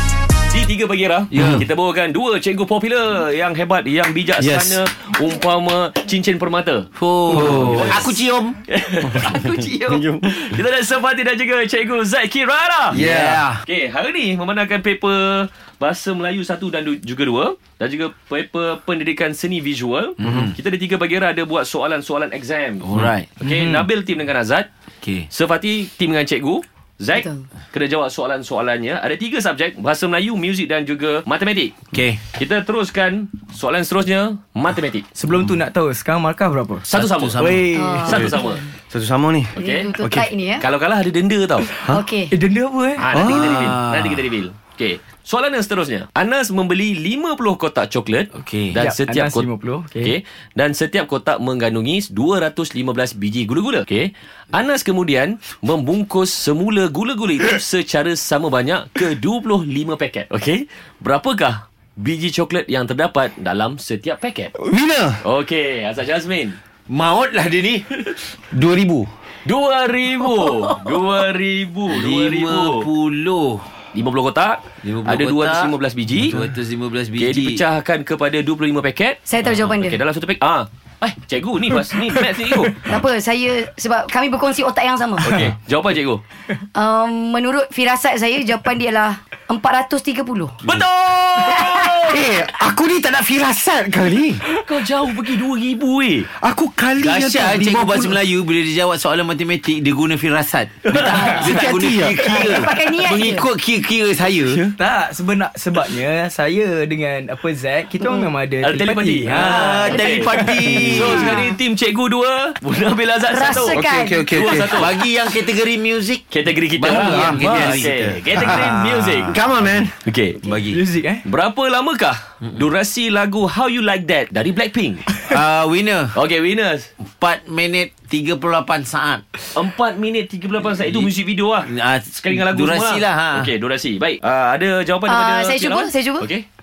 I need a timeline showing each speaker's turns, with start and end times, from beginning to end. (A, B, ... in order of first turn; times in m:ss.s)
0:00.5-0:13.0 A
0:01.3-0:01.6 B
0:04.4-0:04.8 C
0:07.0-0:08.6 B
0:07.3-0:08.0 C
0:09.1-0:10.4 C
0:12.9-0:13.6 B
0:13.1-0:13.4 C
0:13.6-0:24.7 A
0:20.2-0:20.5 B
0:22.8-0:23.4 B
0:23.4-0:23.9 D
0:25.0-0:25.3 B
0:25.3-0:31.7 A
0:27.1-0:27.4 E
0:31.9-0:32.2 B
0:32.3-0:35.0 A
0:35.1-0:38.4 D
0:36.9-0:37.5 A
0:36.9-0:37.7 B
0:37.7-0:38.6 E
0:38.0-0:38.6 A
0:38.9-0:40.2 C
0:39.5-0:39.9 A
0:39.6-0:40.6 E
0:40.6-0:41.7 A
0:41.9-0:42.3 E
0:42.3-0:43.0 D
0:43.0-0:49.5 A
0:43.1-0:43.5 C
0:43.1-0:44.2 B
0:48.3-0:48.8 B
0:48.8-0:50.1 D
0:50.0-1:04.5 A
1:04.6-1:05.2 C
1:05.2-1:06.6 A
1:06.9-1:07.9 B
1:08.5-1:09.1 C
1:09.4-1:12.9 A
1:11.9-1:13.7 B
1:13.9-1:16.4 A
1:14.8-1:17.6 B
1:17.2-1:22.9 A
1:19.2-1:20.0 E
1:22.8-1:25.4 E
1:25.2-1:26.2 A
1:26.6-1:30.6 E
1:30.6-1:32.2 A
1:31.4-1:31.8 E
1:32.0-1:34.4 C
1:34.4-1:36.3 A
1:36.3-1:38.2 C
1:37.0-1:44.7 B
1:40.9-1:41.4 A
1:40.9-1:41.6 E
1:41.0-1:42.3 C
1:42.2-1:43.5 E
1:44.4-1:44.7 C
1:44.8-1:51.5 D
1:48.6-1:53.8 A
1:49.2-1:51.3 B
1:49.8-1:50.8 E
1:53.3-1:54.5 E
1:53.5-1:54.8 C
1:54.3-1:55.0 A
1:54.7-1:56.2 B
1:56.3-1:59.4 A
1:56.8-1:59.3 B
1:56.8-1:59.9 C
2:00.0-2:00.4 A
2:00.4-2:00.8 B
2:00.7-2:01.2 D
2:01.2-2:05.2 A
2:05.2-2:06.2 B
2:06.1-2:06.9 A
2:07.0-2:09.4 B
2:09.5-2:16.4 A
2:10.8-2:11.1 B
2:11.6-2:13.5 B
2:15.1-2:16.3 E